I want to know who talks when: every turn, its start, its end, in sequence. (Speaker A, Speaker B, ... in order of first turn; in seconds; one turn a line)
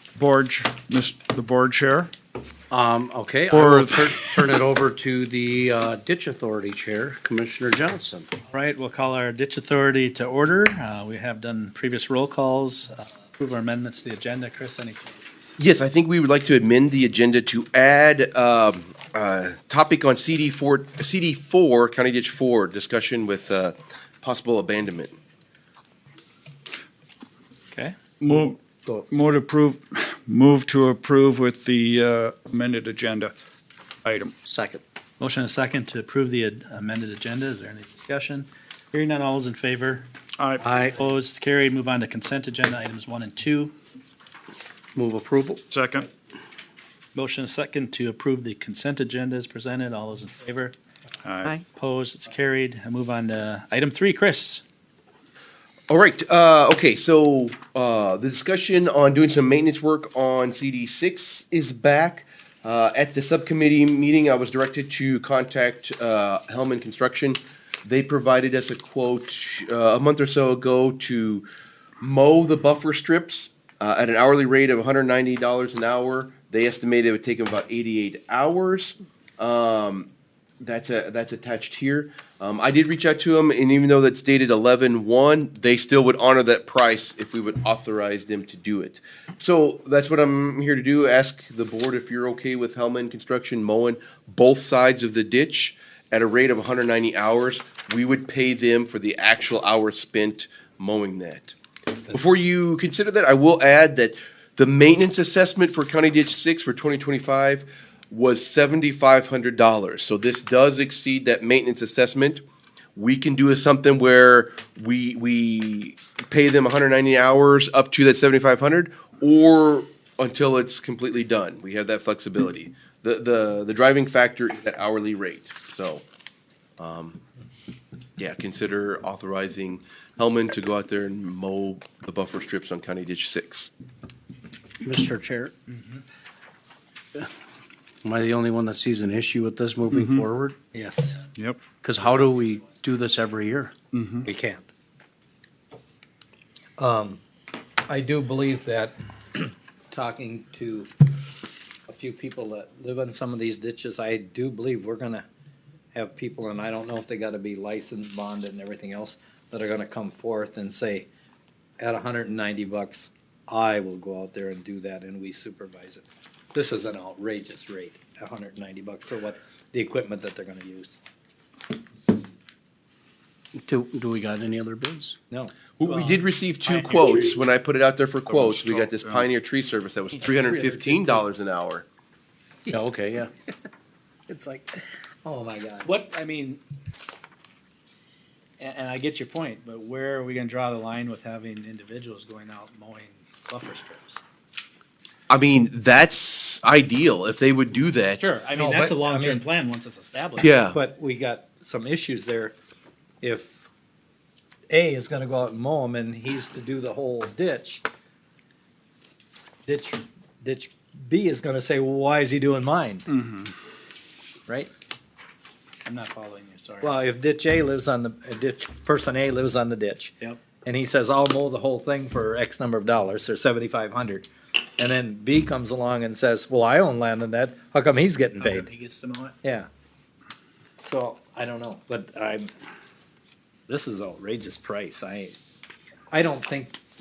Speaker A: 0.1-2.1
Speaker B: 2.7-8.3
Speaker A: 3.5-4.2
Speaker C: 8.5-15.5
Speaker D: 15.6-25.1
Speaker A: 28.2-33.3
Speaker A: 34.0-34.3
Speaker B: 34.4-34.8
Speaker C: 35.2-40.1
Speaker A: 40.4-40.7
Speaker B: 40.6-41.0
Speaker C: 40.8-43.7
Speaker B: 44.9-45.6
Speaker A: 45.7-46.1
Speaker C: 47.1-50.7
Speaker A: 51.2-51.6
Speaker C: 51.7-54.6
Speaker D: 55.9-71.4
Speaker D: 72.0-101.5
Speaker D: 102.1-112.4
Speaker D: 113.0-126.0
Speaker D: 126.8-127.2
Speaker D: 128.2-133.7
Speaker B: 134.8-135.5
Speaker B: 138.0-140.6
Speaker A: 139.9-140.2
Speaker E: 140.7-141.2
Speaker A: 141.3-141.7
Speaker B: 141.7-143.7
Speaker A: 143.9-144.3
Speaker E: 144.2-144.7
Speaker E: 146.8-147.2
Speaker E: 147.9-150.9
Speaker E: 151.9-155.2
Speaker E: 155.9-161.1
Speaker E: 161.8-171.0
Speaker B: 173.6-175.2
Speaker D: 175.8-181.8
Speaker C: 175.8-177.4
Speaker A: 178.3-178.7
Speaker B: 182.7-183.3
Speaker E: 184.3-185.9
Speaker C: 185.8-186.6
Speaker C: 188.6-194.2
Speaker D: 195.3-198.3
Speaker C: 198.2-200.7
Speaker E: 198.6-199.4
Speaker D: 200.4-200.8
Speaker E: 200.7-202.5
Speaker E: 203.2-203.7
Speaker E: 204.7-207.8
Speaker E: 209.7-213.1
Speaker C: 215.8-217.0
Speaker E: 216.8-228.7
Speaker C: 228.4-229.4
Speaker E: 229.4-229.7
Speaker E: 230.8-232.5
Speaker E: 233.7-235.4
Speaker E: 236.1-236.8